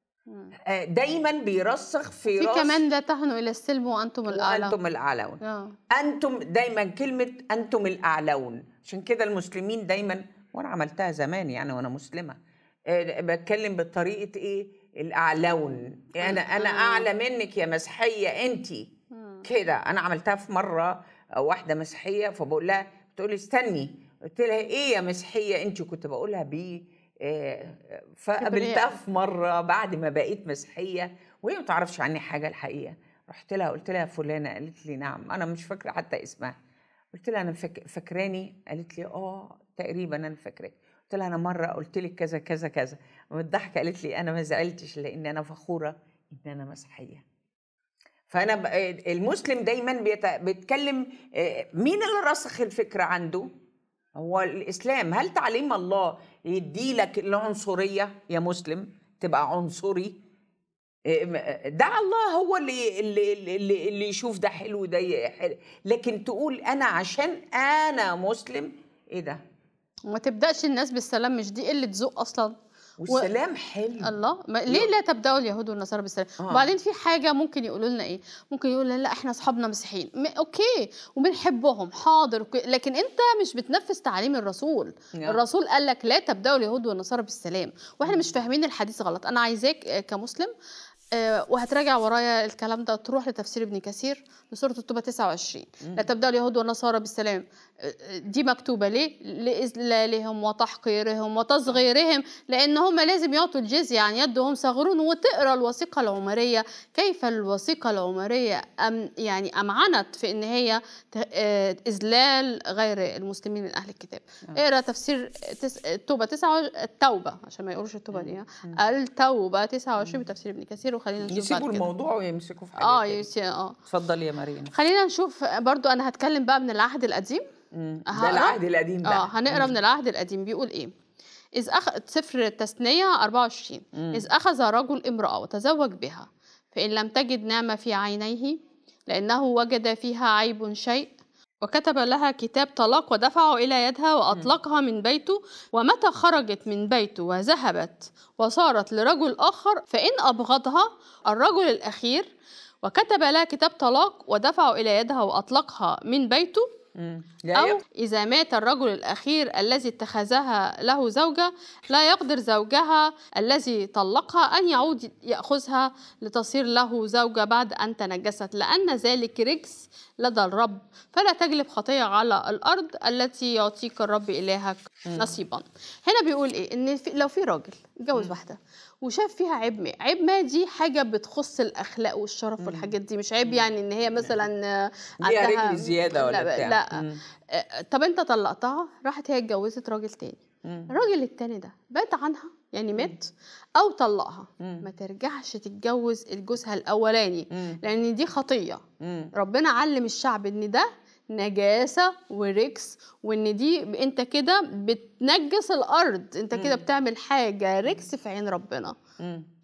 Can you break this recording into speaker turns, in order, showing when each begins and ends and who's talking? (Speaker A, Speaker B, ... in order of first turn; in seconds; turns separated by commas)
Speaker A: 0.7-2.8, Speaker B: 2.3-4.7, Speaker A: 4.3-5.4, Speaker B: 5.4-5.7, Speaker A: 5.9-12.4, Speaker A: 12.9-18.9, Speaker B: 16.2-17.1, Speaker B: 19.1-19.4, Speaker A: 19.4-36.5, Speaker B: 28.4-28.8, Speaker A: 37.1-47.2, Speaker A: 48.3-53.5, Speaker A: 54.1-60.2, Speaker A: 61.1-69.4, Speaker B: 70.1-72.5, Speaker A: 73.0-74.1, Speaker B: 74.0-90.5, Speaker B: 91.2-121.8, Speaker A: 118.1-118.7, Speaker A: 121.2-123.2, Speaker B: 122.8-123.8, Speaker A: 123.9-124.7, Speaker B: 124.7-127.4, Speaker A: 127.7-129.7, Speaker B: 128.1-130.9, Speaker B: 131.6-138.6, Speaker A: 133.9-134.2, Speaker B: 139.1-152.3, Speaker B: 152.8-156.6, Speaker A: 157.0-157.8, Speaker B: 157.5-198.8, Speaker A: 182.6-182.9, Speaker A: 185.2-187.2, Speaker A: 190.6-190.9, Speaker A: 199.0-199.3, Speaker B: 199.3-208.9, Speaker A: 206.5-206.8